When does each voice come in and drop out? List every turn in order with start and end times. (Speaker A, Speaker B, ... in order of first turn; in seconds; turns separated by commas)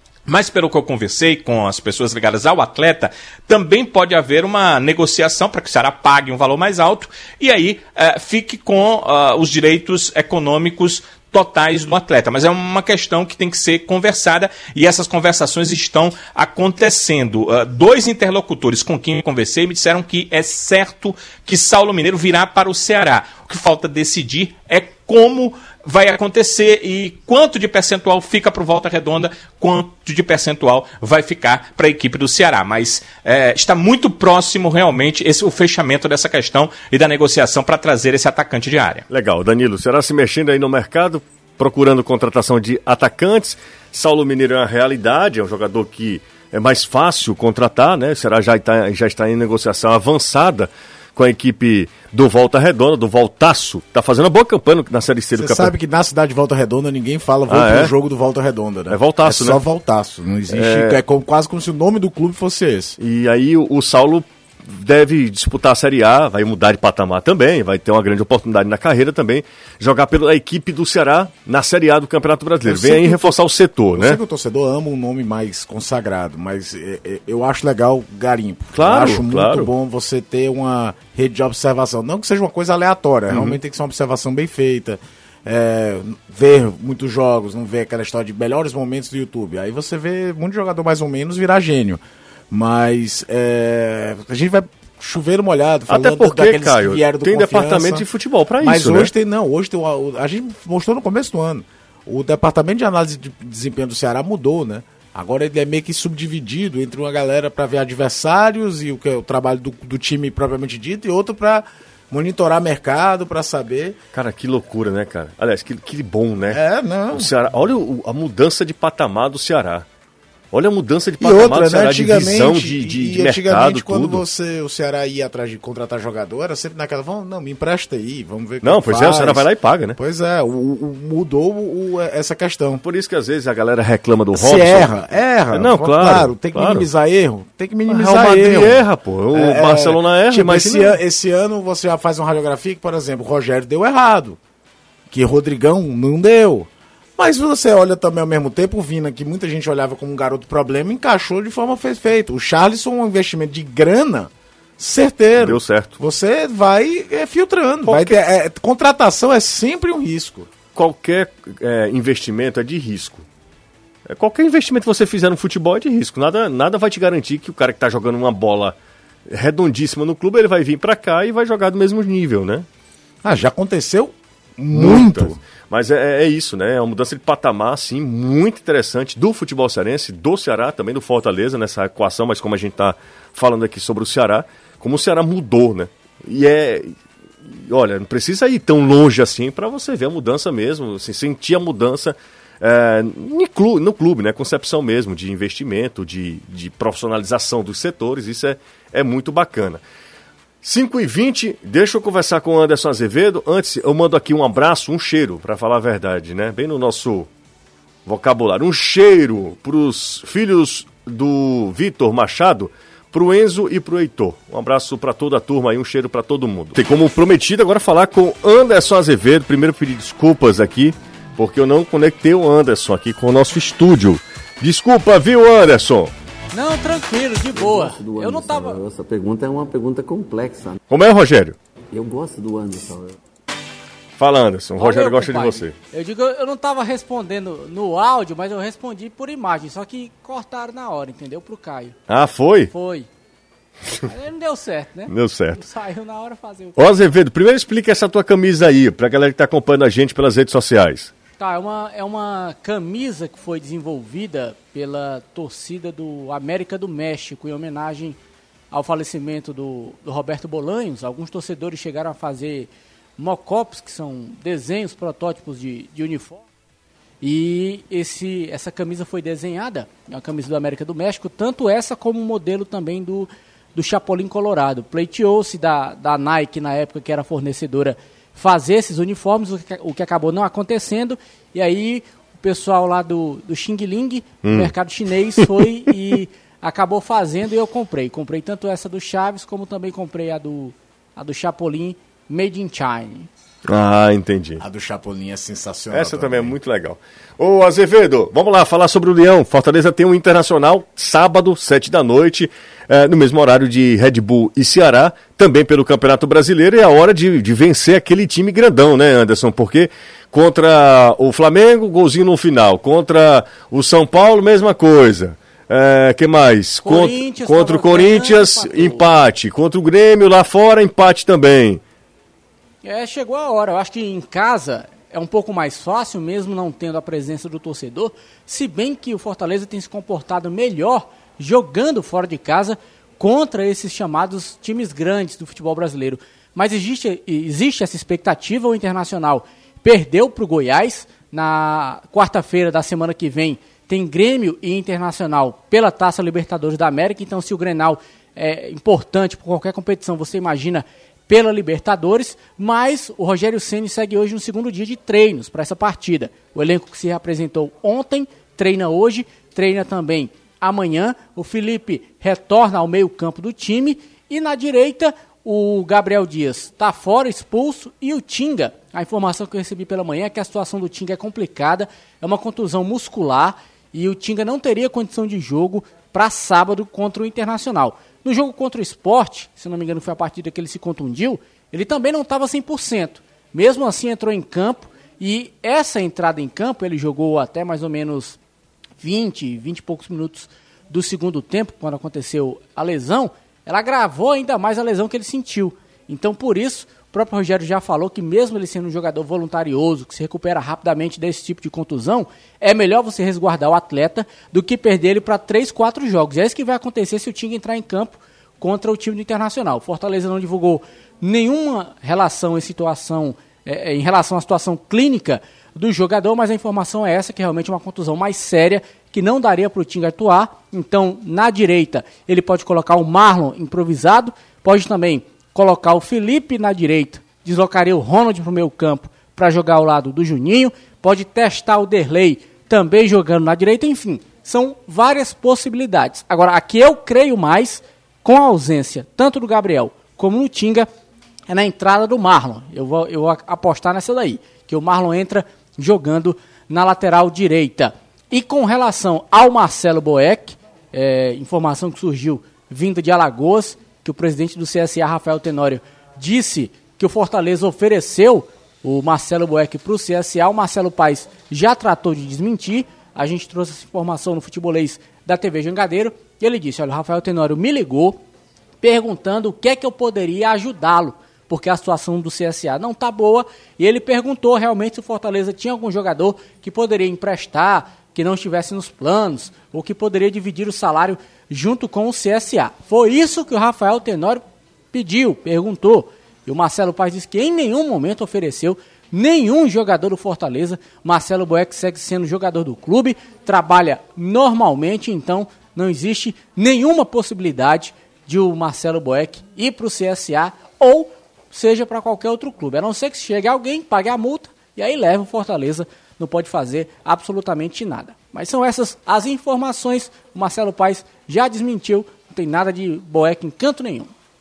Speaker A: 0.3-39.0, Speaker B: 39.1-55.7, Speaker C: 55.4-63.0, Speaker B: 57.5-57.9, Speaker B: 58.9-59.6, Speaker B: 60.5-61.0, Speaker B: 63.0-74.2, Speaker C: 72.6-73.4, Speaker C: 73.9-98.0, Speaker B: 78.7-79.7, Speaker B: 83.3-83.6, Speaker B: 95.9-99.1, Speaker C: 98.6-114.0, Speaker B: 114.1-116.6, Speaker C: 116.5-117.3, Speaker B: 117.1-119.9, Speaker B: 120.5-124.2, Speaker C: 121.2-132.8, Speaker B: 128.6-130.0, Speaker B: 132.8-134.9, Speaker C: 134.3-144.4, Speaker B: 135.5-136.9, Speaker B: 137.9-140.9, Speaker C: 145.1-160.5, Speaker B: 155.4-155.9, Speaker B: 157.8-158.2, Speaker B: 160.7-163.3, Speaker B: 164.1-168.8, Speaker B: 169.3-172.7, Speaker C: 173.2-175.4, Speaker B: 174.7-187.0, Speaker B: 187.5-199.8, Speaker B: 200.6-207.3, Speaker B: 208.1-226.1, Speaker D: 226.5-228.8, Speaker E: 227.5-230.8, Speaker B: 230.9-231.6, Speaker E: 231.9-233.2, Speaker B: 234.2-235.7, Speaker D: 234.8-242.0, Speaker B: 242.1-242.7, Speaker D: 242.7-243.1, Speaker D: 244.0-246.8, Speaker B: 245.1-245.6, Speaker B: 246.8-251.1, Speaker D: 251.4-258.2, Speaker D: 258.7-266.4, Speaker D: 267.2-293.3, Speaker B: 284.4-284.7, Speaker B: 293.6-294.6, Speaker C: 294.6-296.6, Speaker B: 295.9-321.8, Speaker D: 316.8-319.1, Speaker D: 322.8-388.4, Speaker D: 389.0-440.9, Speaker D: 441.5-468.2, Speaker D: 468.8-514.1